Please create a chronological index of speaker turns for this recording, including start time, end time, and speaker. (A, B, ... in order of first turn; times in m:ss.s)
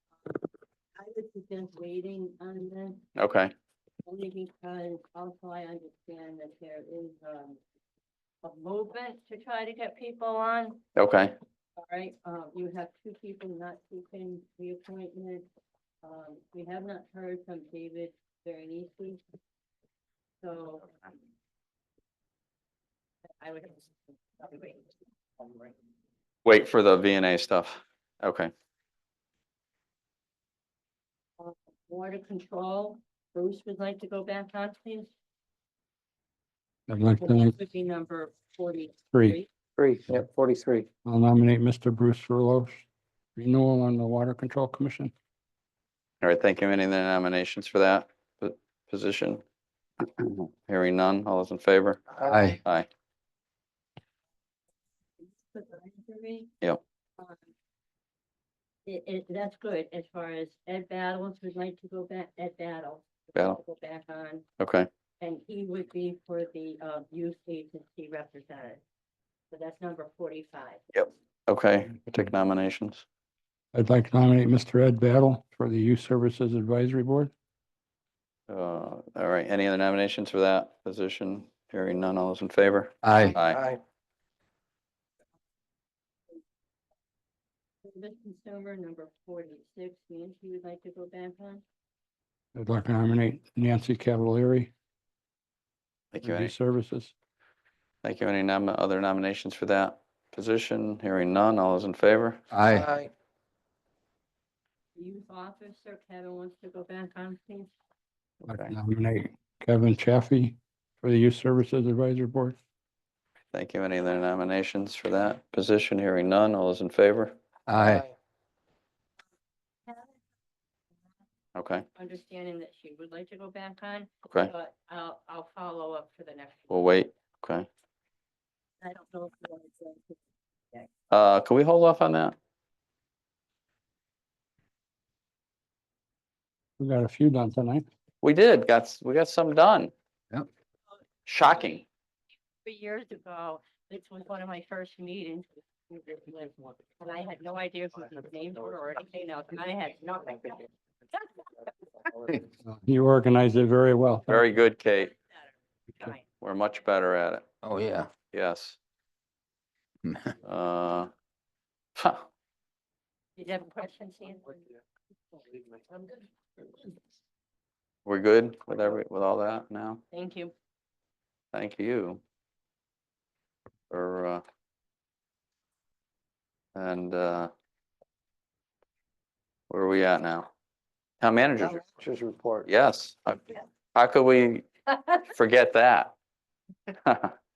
0:01.0-0:03.1 A
0:03.2-0:03.5 B
0:04.1-0:07.6 A
0:08.4-0:10.8 A
0:11.0-0:11.4 B
0:11.8-0:15.5 A
0:16.0-0:19.2 A
0:20.4-0:21.1 A
0:23.4-0:25.7 A
0:26.4-0:28.5 B
0:31.4-0:35.1 A
0:36.9-0:37.6 C
0:37.2-0:39.5 A
0:39.1-0:39.4 C
0:40.6-0:40.8 D
0:41.0-0:42.8 C
0:43.4-0:45.1 C
0:46.2-0:49.4 B
0:50.0-0:52.0 B
0:52.6-0:52.9 B
0:55.3-0:56.6 A
0:58.9-1:04.4 A
1:04.6-1:04.9 B
1:05.2-1:08.8 A
1:09.5-1:10.8 A
1:10.9-1:13.0 B
1:13.7-1:17.3 C
1:18.5-1:23.7 B
1:23.0-1:23.4 D
1:27.8-1:31.6 A
1:32.6-1:34.7 C
1:36.1-1:36.5 B
1:36.2-1:37.1 C
1:38.0-1:42.4 B
1:42.5-1:42.9 C
1:42.6-1:43.1 D
1:45.0-1:47.7 A
1:48.4-1:48.8 B
1:48.5-1:52.6 C
1:53.5-1:57.4 B
1:57.7-1:58.0 C
1:57.8-1:58.1 D
1:59.9-2:00.1 A
2:01.6-2:01.9 B
2:02.0-2:06.9 A
2:04.2-2:04.5 B
2:06.7-2:07.7 B
2:08.8-2:10.2 A
2:11.1-2:12.4 B
2:16.8-2:17.8 C
2:18.2-2:19.9 B
2:21.3-2:21.9 B
2:22.6-2:31.3 A
2:32.6-2:34.5 C
2:34.3-2:35.1 B
2:36.3-2:37.5 B
2:37.6-2:38.1 D
2:38.3-2:38.8 B
2:40.4-2:41.1 B
2:42.0-2:42.3 B
2:43.4-2:44.8 A
2:45.4-2:46.2 A
2:48.1-2:50.0 B
2:50.1-2:50.5 A
2:51.5-2:52.2 B
2:53.9-2:54.4 B
2:56.8-2:57.5 B
2:59.7-3:00.5 B
3:01.2-3:01.8 B
3:02.0-3:02.6 D
3:02.6-3:06.1 B
3:07.0-3:07.3 B